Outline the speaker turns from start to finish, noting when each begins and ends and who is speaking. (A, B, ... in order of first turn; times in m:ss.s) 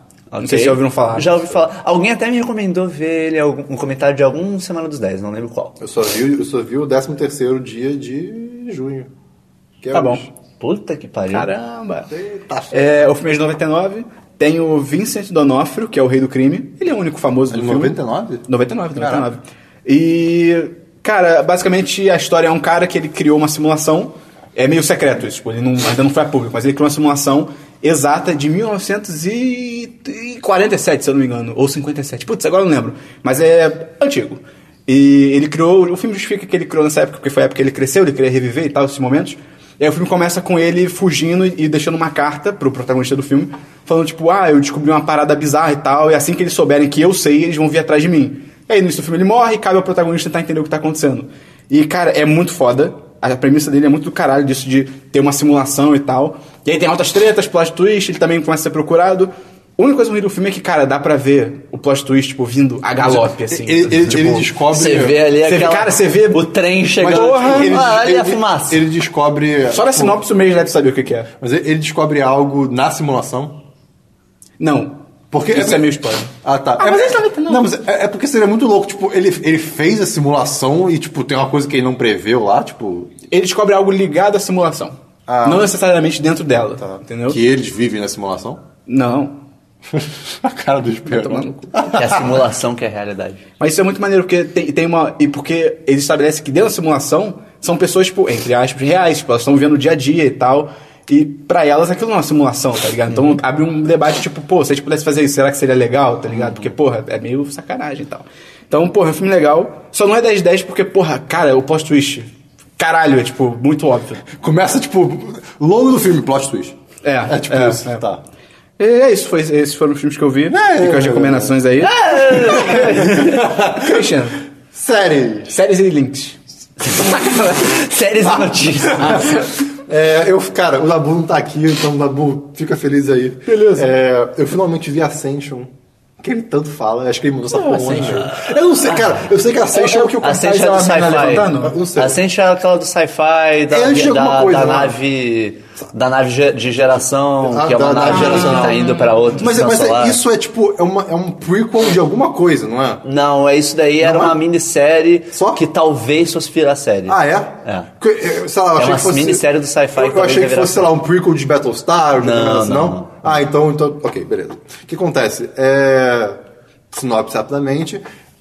0:00.3-0:05.8 A
0:00.4-0:01.4 B
0:05.8-0:09.1 C
0:09.8-0:10.3 C
0:09.9-0:10.2 B
0:10.6-0:11.5 A
0:11.3-0:12.1 B
0:12.1-0:13.0 C
0:12.7-0:18.0 B
0:17.5-0:19.3 C
0:18.5-1:04.4 B
1:03.0-1:05.2 C
1:04.7-1:08.8 A
1:05.4-1:07.8 B
1:07.0-1:10.2 C
1:09.7-1:11.3 B
1:11.4-1:13.6 C
1:14.6-1:15.0 B
1:15.3-1:15.8 C
1:15.5-1:17.6 B
1:16.4-1:23.1 C
1:23.3-1:27.4 B
1:25.3-1:25.7 C
1:26.8-1:28.6 C
1:28.9-1:29.4 B
1:29.9-1:32.3 C
1:31.1-1:31.9 B
1:31.9-1:33.4 A
1:33.6-1:54.3 B
1:54.4-1:58.2 C
1:57.0-1:58.0 B
1:58.8-2:04.4 B
2:00.5-2:01.6 C
2:01.8-2:03.4 A
2:02.6-2:04.1 C
2:04.7-2:05.6 C
2:05.5-2:07.8 B
2:07.0-2:09.4 A
2:08.3-2:20.4 C
2:13.5-2:13.9 B
2:17.5-2:18.3 B
2:18.9-2:19.1 A
2:19.7-2:21.8 B
2:20.2-2:30.2 A
2:21.0-2:22.2 C
2:23.7-2:25.0 C
2:27.4-2:33.0 C
2:28.1-2:29.1 B
2:33.0-2:37.9 A
2:34.0-2:34.4 C
2:35.3-2:35.6 C
2:37.1-2:46.4 C
2:38.8-2:41.0 A
2:42.2-2:43.2 A
2:46.9-2:48.0 C